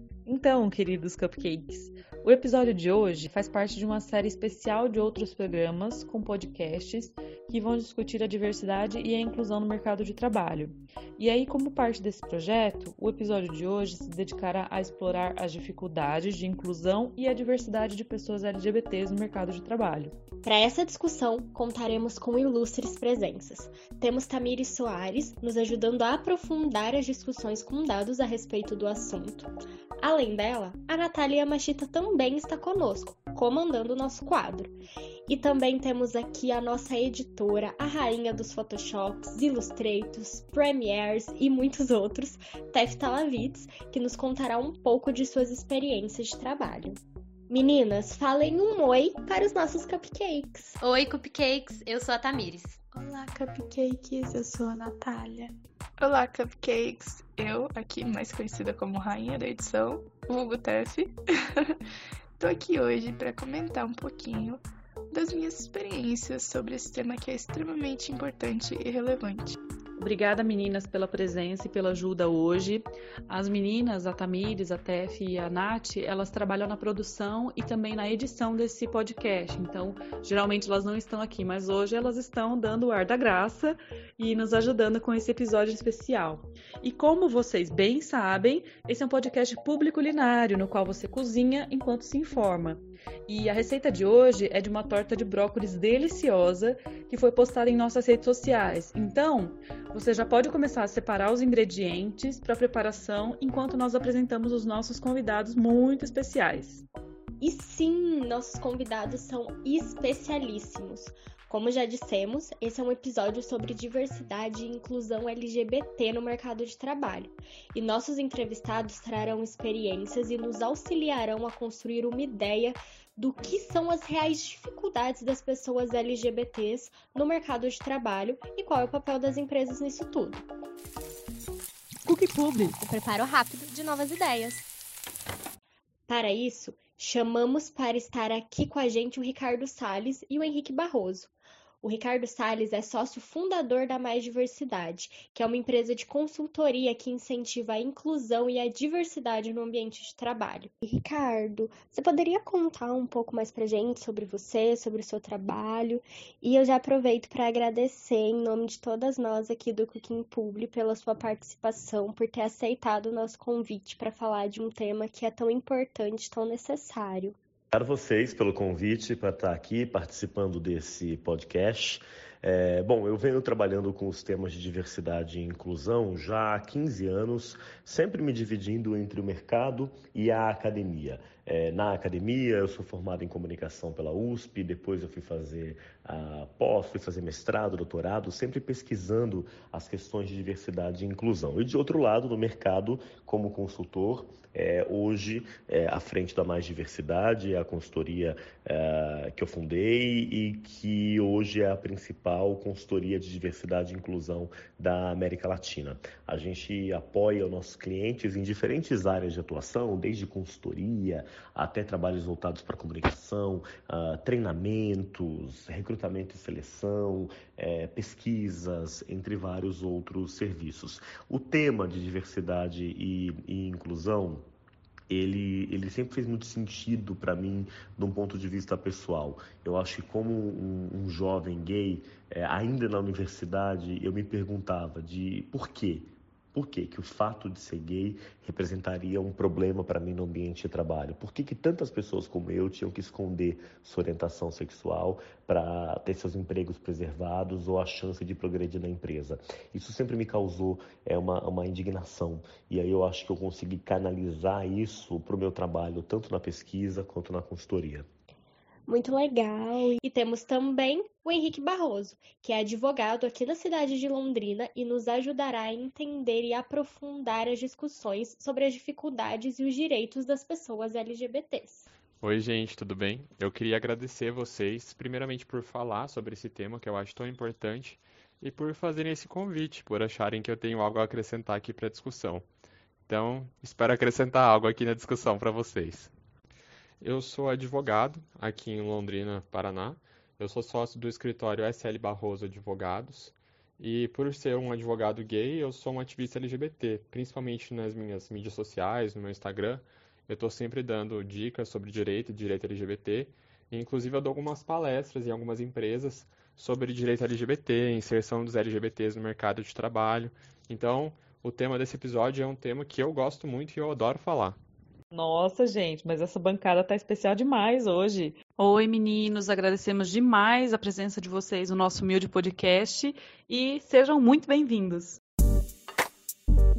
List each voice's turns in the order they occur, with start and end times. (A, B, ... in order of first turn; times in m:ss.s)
0:00.2-0:20.2 A
0:20.4-0:34.8 B
0:35.3-0:50.8 B
0:50.8-0:52.8 C
0:52.9-0:55.5 D
0:56.0-1:01.8 E
1:02.4-1:09.6 E
1:10.0-1:46.8 A
1:47.4-2:10.4 B
2:12.0-2:12.8 A
2:12.8-2:14.6 B
2:16.1-2:21.3 B
2:21.8-2:47.4 B
2:47.7-3:44.5 F
3:45.1-4:18.1 F
4:18.9-4:31.9 B
4:32.2-4:42.4 G
4:43.1-4:46.1 G
4:47.0-5:14.6 G
5:15.1-5:25.2 A